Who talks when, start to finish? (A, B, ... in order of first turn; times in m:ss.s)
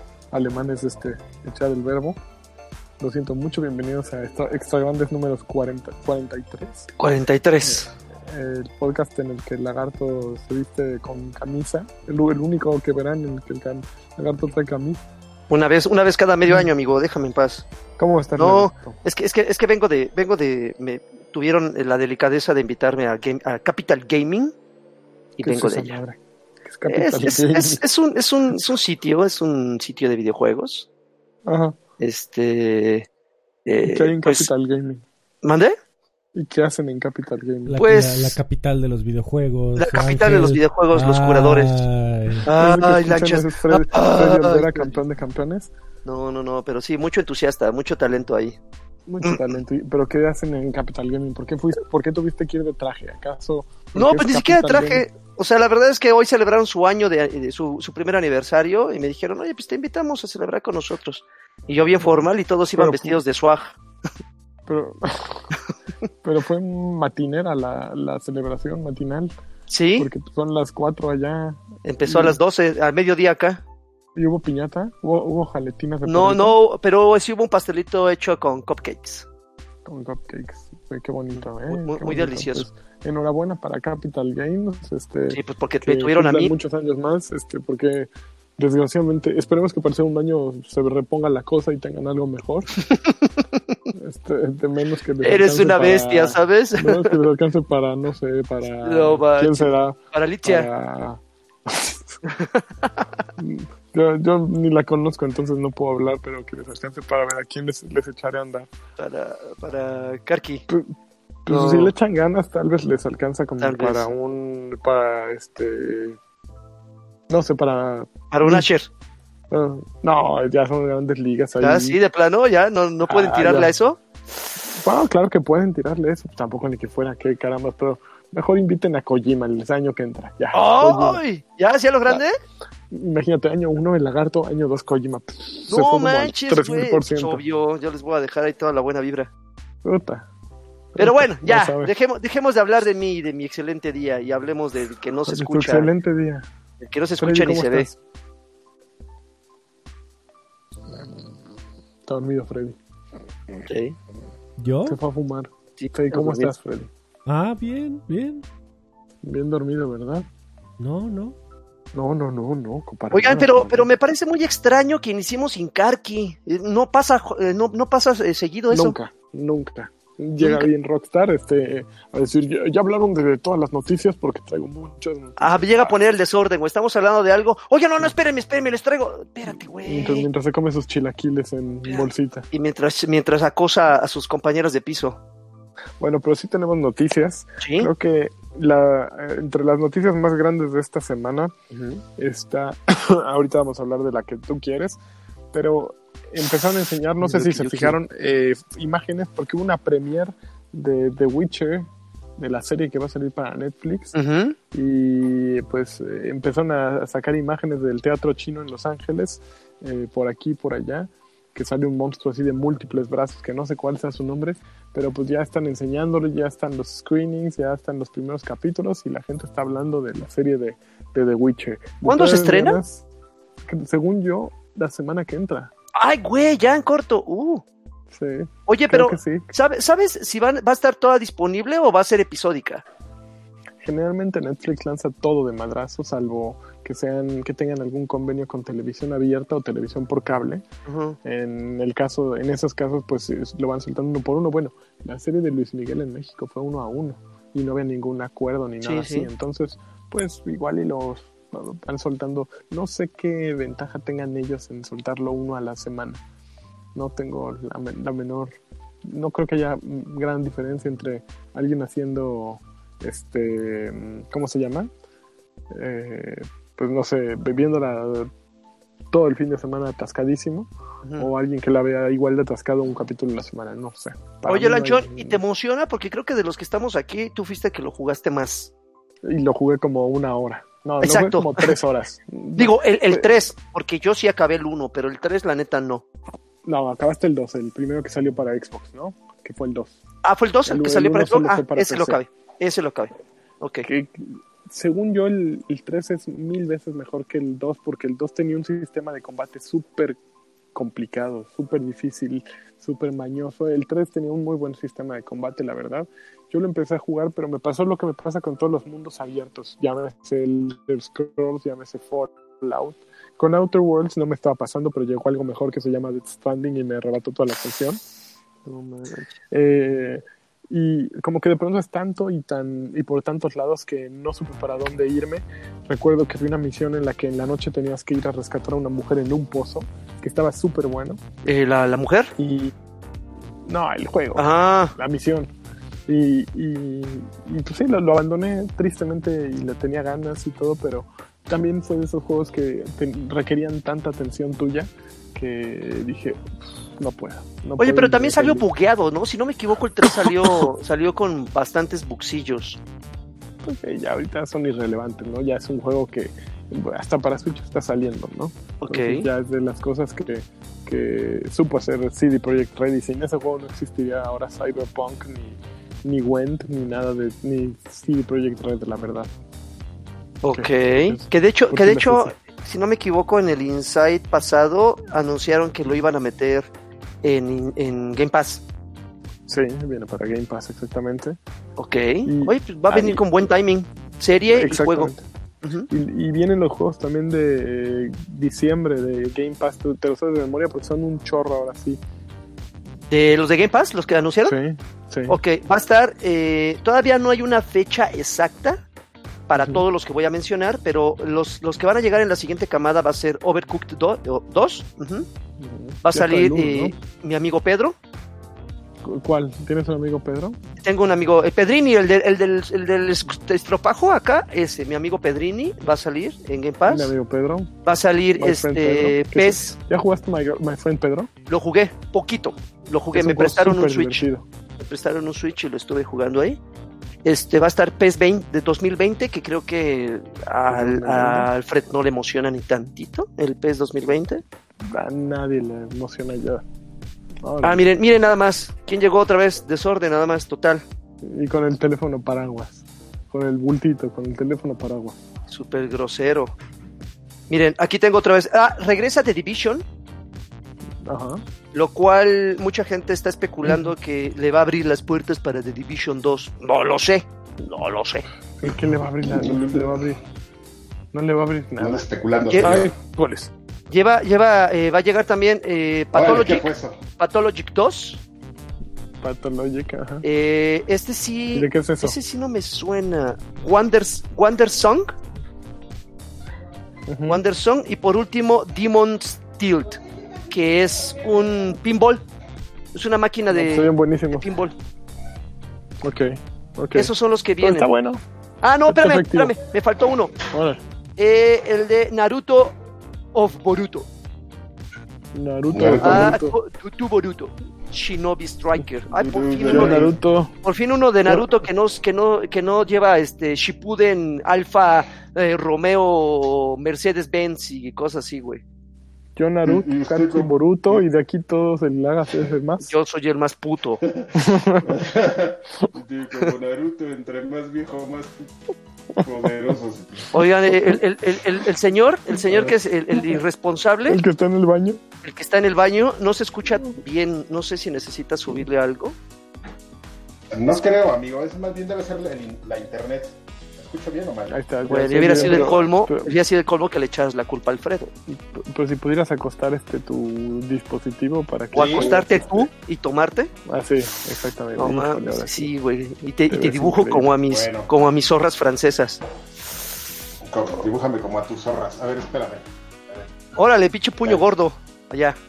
0:00.3-0:02.2 A
0:03.0-0:06.9 A
0:07.0-0:07.9 B
0:07.6-0:15.0 A
0:15.5-0:17.6 B
0:18.0-0:19.0 A
0:18.4-0:24.5 B
0:25.4-0:26.0 B
0:25.4-0:27.8 A
0:26.9-0:30.9 B
0:31.5-0:31.8 A
0:32.0-0:33.1 B
0:33.6-0:34.5 B
0:33.8-0:35.0 A
0:35.4-0:35.8 B
0:36.4-0:37.8 A
0:37.7-0:42.5 C
0:37.8-0:38.4 B
0:39.8-0:41.8 B
0:42.4-0:44.9 B
0:42.5-0:45.7 A
0:46.0-0:48.6 B
0:49.1-0:55.0 A
0:49.2-0:49.5 B
0:53.9-1:03.7 B
1:02.0-1:03.2 A
1:04.7-1:05.5 A
1:06.2-1:09.3 A
1:09.7-1:10.1 B
1:10.0-1:12.4 A
1:11.8-1:13.6 B
1:14.2-1:16.6 A
1:16.0-1:19.3 B
1:19.8-1:32.8 A
1:21.4-1:22.7 B
1:25.3-1:26.5 B
1:32.8-1:33.6 B
1:33.9-1:42.2 A
1:35.2-1:37.1 B
1:38.8-1:40.7 B
1:42.3-1:43.2 B
1:43.4-1:48.7 A
1:49.0-1:50.6 B
1:50.7-1:50.9 A
1:51.4-1:56.2 A
1:51.5-1:51.9 B
1:53.6-1:54.1 B
1:57.3-1:58.7 A
1:58.3-1:58.9 B
1:59.5-2:02.0 A
2:01.6-2:04.0 B
2:03.0-2:03.7 A
2:04.7-2:11.2 A
2:10.5-2:12.3 B
2:12.9-2:17.4 A
2:15.7-2:19.3 B
2:19.8-2:20.3 A
2:20.9-2:21.9 A
2:21.0-2:25.9 B
2:25.2-2:26.5 A
2:26.8-2:27.9 B
2:27.2-2:28.0 A
2:32.1-2:32.8 A
2:33.6-2:34.0 B
2:34.6-2:35.0 C
2:34.8-2:36.9 A
2:35.8-2:36.5 B
2:37.3-2:38.4 C
2:39.2-2:40.2 A
2:40.8-2:41.4 C
2:41.9-2:43.9 A
2:43.1-2:48.9 B
2:48.7-2:55.9 A
2:50.4-2:50.7 B
2:55.4-3:00.3 B
2:59.8-3:02.5 A
3:01.8-3:05.2 B
3:06.0-3:11.5 A
3:07.6-3:07.9 B
3:11.7-3:12.0 B
3:12.2-3:15.0 A
3:15.5-3:24.2 A
3:17.2-3:18.0 B
3:24.1-3:24.6 B
3:24.7-3:43.0 A
3:42.0-3:42.8 B
3:43.6-3:45.7 A
3:45.9-3:47.6 B
3:48.1-3:49.5 A
3:48.7-3:52.8 B
3:53.8-4:00.6 A
4:00.9-4:01.2 B
4:01.2-4:16.2 A
4:08.8-4:09.3 B
4:16.9-4:24.9 A
4:25.7-4:28.3 A
4:29.1-4:35.4 A
4:31.0-4:31.3 B
4:34.5-4:38.7 B
4:39.2-4:43.3 A
4:41.0-4:41.7 B
4:42.6-4:46.0 B
4:46.6-4:50.0 A
4:50.2-4:53.9 B
4:50.6-4:52.2 A
4:53.8-5:00.2 A
5:00.7-5:18.0 A
5:18.6-5:19.3 B
5:19.5-5:31.2 A
5:31.4-5:32.3 B
5:32.4-5:32.7 A
5:33.6-5:35.5 A
5:34.4-5:34.9 B
5:36.1-5:46.4 A
5:47.0-5:48.6 A
5:47.8-5:52.8 B
5:53.6-6:09.3 A
5:58.8-5:59.3 B
6:10.4-6:16.7 B
6:10.5-6:12.3 A
6:17.2-6:18.6 B
6:19.5-6:21.4 A
6:21.8-6:25.1 B
6:22.2-6:23.2 A
6:24.5-6:25.2 A
6:25.9-6:32.0 A
6:33.1-6:34.5 B
6:34.4-6:35.4 A
6:35.3-6:38.8 B
6:39.5-6:45.3 B
6:39.6-6:39.8 A
6:45.6-6:47.0 A
6:46.0-6:48.0 B
6:49.0-6:50.6 A
6:50.8-6:57.1 B
6:56.8-6:57.7 A
6:57.8-6:59.8 B
6:58.4-7:01.3 A
7:01.5-7:04.2 B
7:03.1-7:04.4 A
7:04.8-7:06.6 B
7:07.2-7:14.4 B
7:10.7-7:11.5 A
7:14.9-7:16.6 A
7:17.4-7:17.8 A
7:17.6-7:20.8 B
7:21.2-7:25.2 A
7:25.5-7:26.5 B
7:27.5-7:29.8 B
7:31.0-7:31.4 A
7:31.7-7:37.2 B
7:33.6-7:33.9 A
7:37.6-7:40.2 A
7:39.2-7:40.1 D
7:41.1-7:42.0 A
7:41.8-7:42.9 D
7:42.5-7:42.8 B
7:42.6-7:43.5 A
7:43.9-7:46.7 B
7:46.1-7:47.0 D
7:47.2-7:48.2 B
7:49.2-7:50.2 A
7:50.2-7:55.1 B
7:51.5-7:52.2 A
7:57.1-7:57.4 A
7:57.2-8:00.0 B
8:00.5-8:02.2 B
8:02.9-8:04.7 B
8:03.5-8:04.4 A
8:06.0-8:08.2 A
8:06.9-8:07.9 B
8:08.6-8:10.4 B
8:08.9-8:09.5 A
8:10.5-8:10.8 A
8:11.2-8:12.8 B
8:13.3-8:14.1 B
8:15.3-8:16.6 A
8:15.7-8:16.4 D
8:16.0-8:20.1 B
8:19.1-8:20.2 D
8:19.6-8:20.5 A
8:20.6-8:28.6 B
8:29.4-8:32.9 A
8:29.6-8:31.0 D
8:32.9-8:34.0 B
8:34.0-8:38.5 D
8:34.4-8:35.0 A
8:39.2-8:40.3 D
8:40.3-8:44.2 B
8:42.5-8:42.7 D
8:44.1-8:45.0 A
8:45.2-8:49.2 B
8:50.5-8:54.6 D
8:54.5-8:56.3 A
8:54.8-8:58.1 B
8:55.4-8:55.8 D
8:58.3-9:02.7 A
9:01.7-9:02.4 D
9:01.7-9:03.5 B
9:03.6-9:05.7 A
9:04.8-9:09.2 B
9:06.5-9:07.3 A
9:07.5-9:07.9 D
9:10.4-9:13.4 D
9:13.6-9:15.4 B